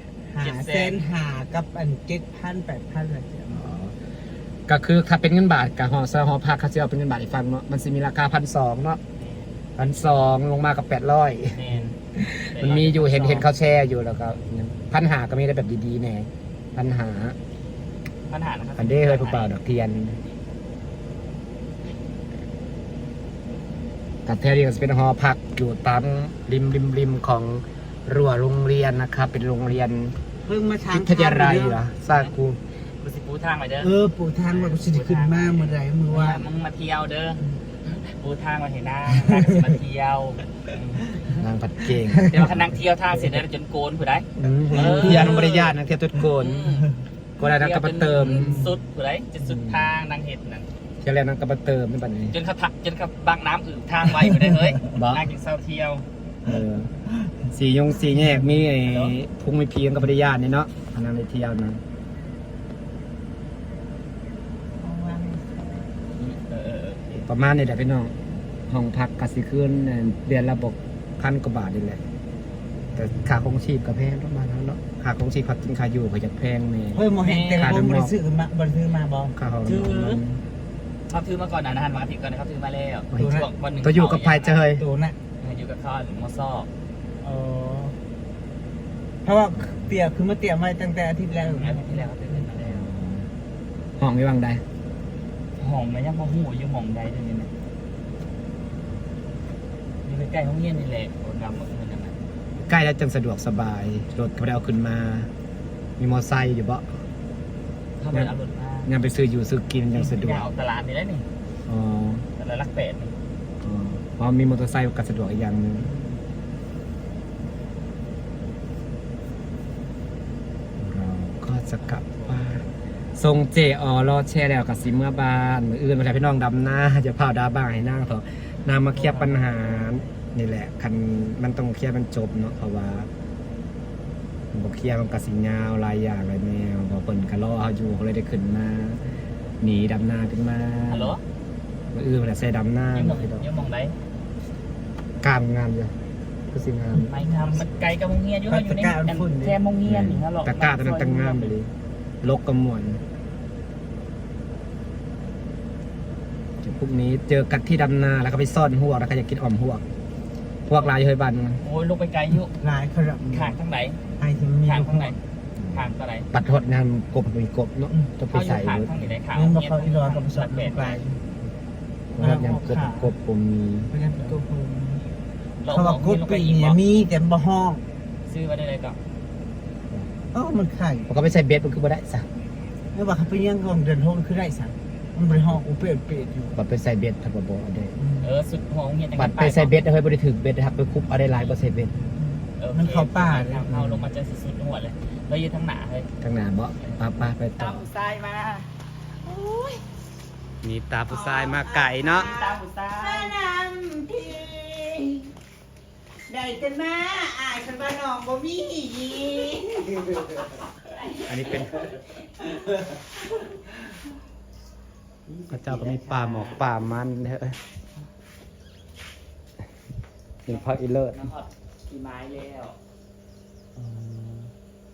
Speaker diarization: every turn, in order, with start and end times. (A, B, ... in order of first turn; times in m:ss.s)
0:00.3-0:03.6 A
0:00.4-0:01.0 B
0:03.5-0:04.0 C
0:04.7-0:09.0 C
0:09.2-0:10.2 B
0:09.8-0:17.4 C
0:11.5-0:13.5 B
0:18.3-0:19.5 B
0:18.8-0:20.2 C
0:24.2-0:30.1 C
0:30.4-0:31.8 A
0:30.9-0:32.6 C
0:32.1-0:32.3 B
0:33.0-0:41.3 B
0:33.8-0:36.4 A
0:41.3-0:42.8 C
0:42.1-0:42.5 A
0:42.3-0:45.8 B
0:44.4-0:46.8 C
0:44.9-0:45.3 A
0:46.4-0:46.9 B
0:47.4-0:48.8 C
0:47.4-0:50.7 B
0:49.4-0:49.9 C
0:51.0-0:52.3 C
0:52.3-0:56.0 B
0:54.8-0:55.3 C
0:56.4-0:56.9 C
0:57.5-1:01.8 C
0:58.8-0:59.1 B
1:04.8-1:05.7 A
1:06.2-1:07.3 B
1:07.2-1:08.1 C
1:08.7-1:12.0 C
1:12.9-1:17.0 C
1:16.9-1:19.3 A
1:17.2-1:17.9 B
1:17.6-1:18.1 C
1:19.3-1:20.4 C
1:19.6-1:20.2 B
1:21.1-1:24.6 B
1:23.1-1:24.8 C
1:23.2-1:23.5 A
1:24.8-1:25.2 A
1:25.4-1:26.7 B
1:27.2-1:28.0 A
1:29.2-1:32.1 A
1:29.6-1:29.9 C
1:31.4-1:32.9 B
1:32.6-1:33.3 C
1:34.0-1:34.6 C
1:35.6-1:37.5 B
1:40.0-1:42.2 B
1:42.6-1:45.3 C
1:46.0-1:46.9 C
1:48.0-1:48.9 B
1:48.8-1:50.5 C
1:49.9-1:50.4 A
1:50.2-1:51.2 B
1:51.7-1:52.2 C
1:52.4-1:53.1 B
1:53.6-1:55.9 C
2:00.8-2:13.1 C
2:01.8-2:02.4 B
2:08.9-2:10.2 B
2:14.5-2:19.0 C
2:19.6-2:21.2 C
2:20.9-2:21.2 B
2:21.9-2:23.4 C
2:22.9-2:24.0 B
2:25.2-2:25.9 C
2:26.5-2:27.1 C
2:26.9-2:27.7 A
2:27.1-2:31.5 B
2:28.5-2:29.6 A
2:29.8-2:31.7 C
2:32.2-2:33.0 C
2:36.6-2:39.8 C
2:40.6-2:41.6 C
2:41.6-2:42.5 B
2:42.6-2:43.6 A
2:43.3-2:44.0 B
2:44.2-2:45.2 A
2:44.6-2:45.2 B
2:45.6-2:49.0 C
2:45.7-2:46.3 B
2:48.3-2:51.0 B
2:49.3-2:51.2 A
2:52.1-2:53.9 C
2:52.2-2:53.1 A
2:53.9-2:55.1 A
2:55.6-2:56.8 B
2:55.7-2:57.8 A
2:58.3-2:59.0 B
3:00.3-3:01.1 A
3:01.0-3:02.2 C
3:02.9-3:06.6 A
3:06.5-3:07.9 C
3:08.0-3:08.3 A
3:08.2-3:09.8 B
3:09.2-3:11.9 C
3:12.1-3:14.0 A
3:12.6-3:16.1 B
3:16.2-3:17.8 C
3:17.6-3:18.7 B
3:19.2-3:19.8 B
3:20.6-3:22.3 C
3:21.1-3:25.3 A
3:22.1-3:23.4 B
3:26.3-3:30.4 A
3:31.2-3:31.9 C
3:35.2-3:36.6 B
3:35.5-3:37.6 C
3:40.4-3:41.3 C
3:40.5-3:42.8 B
3:43.8-3:44.5 C